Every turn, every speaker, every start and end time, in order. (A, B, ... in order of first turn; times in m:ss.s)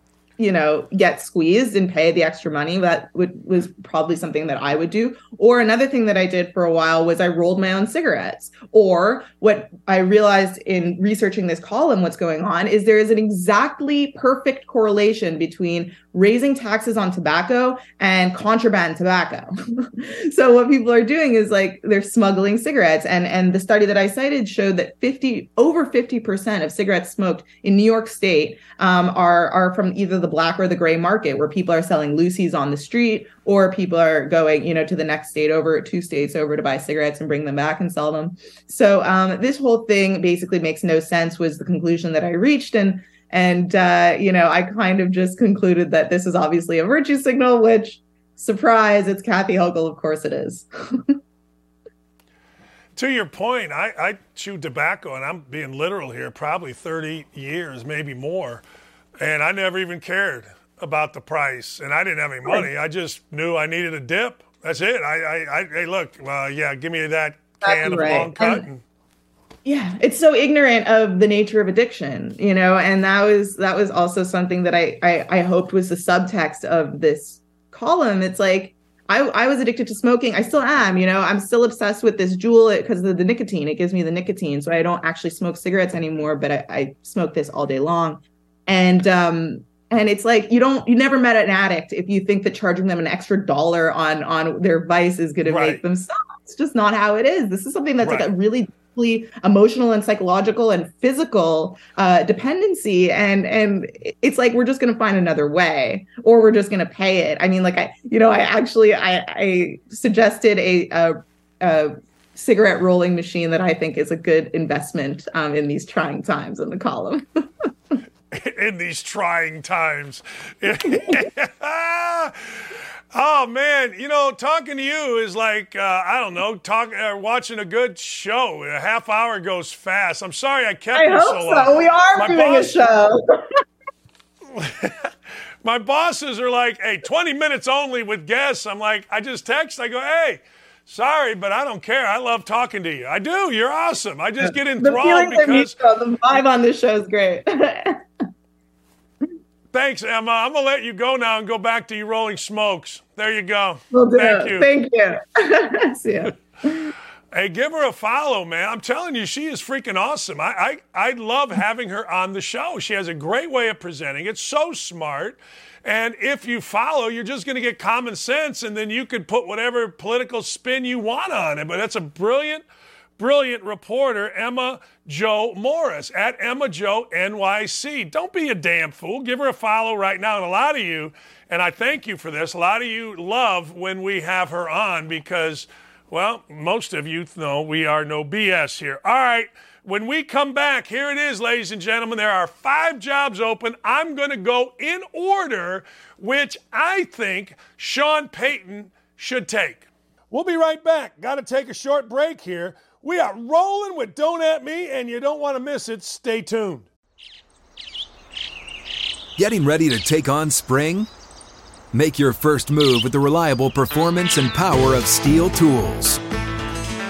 0:00.4-0:51.2 A
0:53.0-0:58.6 B
0:59.2-1:08.8 B
1:07.6-1:08.6 A
1:09.6-1:57.4 A
1:35.4-1:35.8 B
1:38.0-1:38.3 B
1:58.3-2:12.8 B
2:10.9-2:13.4 A
2:14.5-2:15.1 B
2:15.6-2:25.8 B
2:24.4-2:28.0 A
2:29.7-2:34.7 B
2:33.9-2:36.9 A
2:37.3-2:52.6 B
2:53.2-3:26.9 B
3:29.4-3:31.1 C
3:31.9-3:36.2 C